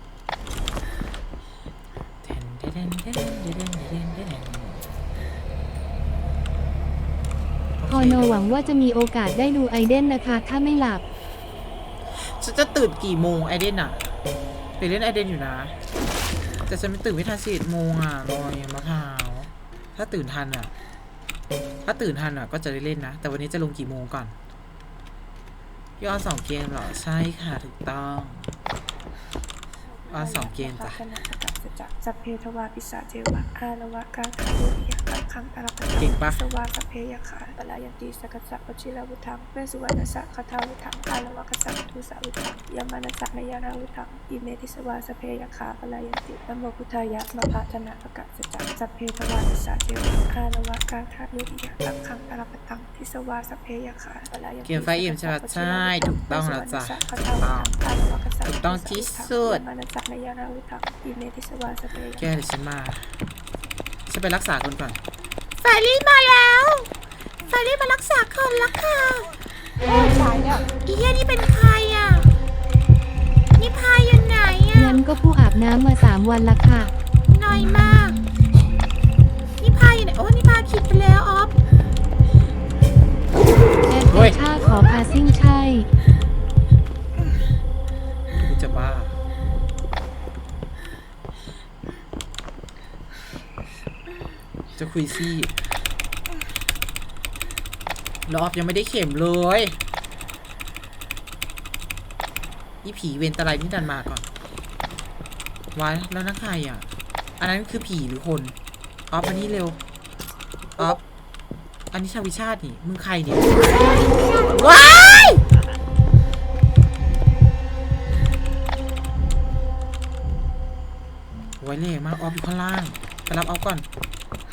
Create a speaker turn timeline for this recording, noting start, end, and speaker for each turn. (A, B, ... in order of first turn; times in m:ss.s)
0:02.2-0:04.9 A
0:07.8-0:08.8 A
0:07.9-0:11.0 B
0:12.1-0:14.0 A
0:14.8-0:15.8 A
0:16.6-0:20.7 A
0:21.8-0:24.4 A
0:26.0-0:28.6 A
0:29.9-1:02.3 C
0:30.1-0:31.0 A
0:36.0-0:36.4 A
0:54.6-0:57.7 A
0:58.4-0:59.6 A
1:02.2-1:03.2 A
1:04.1-1:05.0 A
1:05.6-1:06.9 A
1:07.5-1:09.3 A
1:10.7-1:12.3 A
1:13.6-1:15.0 A
1:14.7-1:16.9 B
1:17.3-1:18.2 A
1:19.6-1:21.5 A
1:23.9-1:25.9 B
1:24.1-1:24.4 A
1:28.3-1:29.2 A
1:34.8-1:35.5 A
1:38.3-1:39.8 A
1:42.8-1:44.2 A
1:45.7-1:46.9 A
1:47.4-1:48.5 A
1:49.1-1:49.8 A
1:51.9-1:53.6 A
1:54.5-1:55.4 A
2:01.6-2:03.8 A